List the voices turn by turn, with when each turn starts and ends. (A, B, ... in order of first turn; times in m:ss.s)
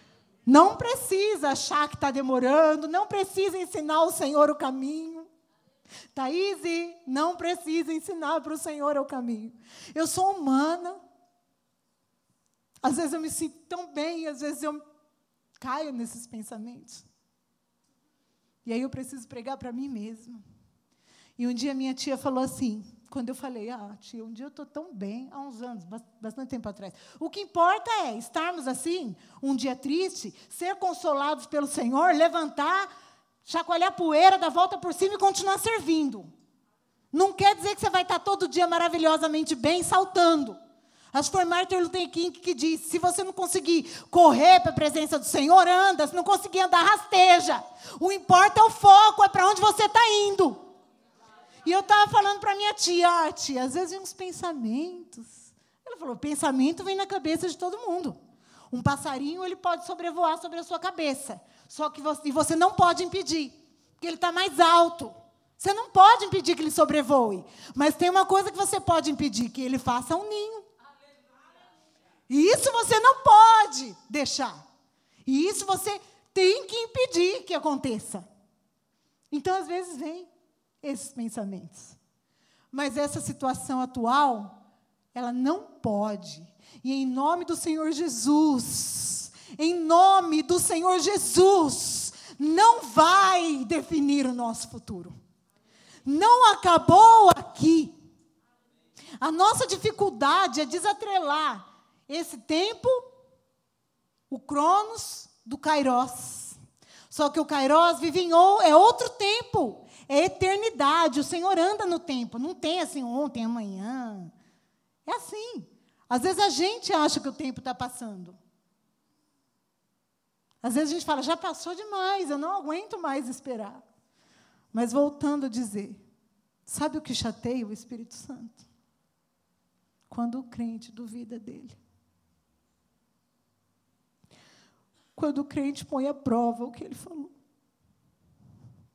0:00.5-0:05.3 A
0:06.1-0:11.0 A
0:12.8-0:14.8 A
0:15.6-0:17.0 A
0:18.6-0:20.4 A
0:21.4-0:32.9 A
0:33.4-0:36.3 A
0:37.1-0:40.6 A
0:41.1-0:50.6 A
0:51.6-0:58.2 A
0:58.7-1:10.7 A
1:12.3-1:14.6 A
1:15.2-1:18.3 A
1:19.3-1:20.3 A
1:20.8-1:22.0 A
1:22.7-1:24.6 A
1:25.1-1:35.1 A
1:36.0-1:38.0 A
1:39.2-1:43.0 A
1:44.3-1:46.6 A
1:47.1-1:54.3 A
1:55.0-1:58.4 A
2:00.6-2:03.8 A
2:04.7-2:06.0 A
2:06.6-2:08.6 A
2:10.1-2:11.8 A
2:15.1-2:17.3 A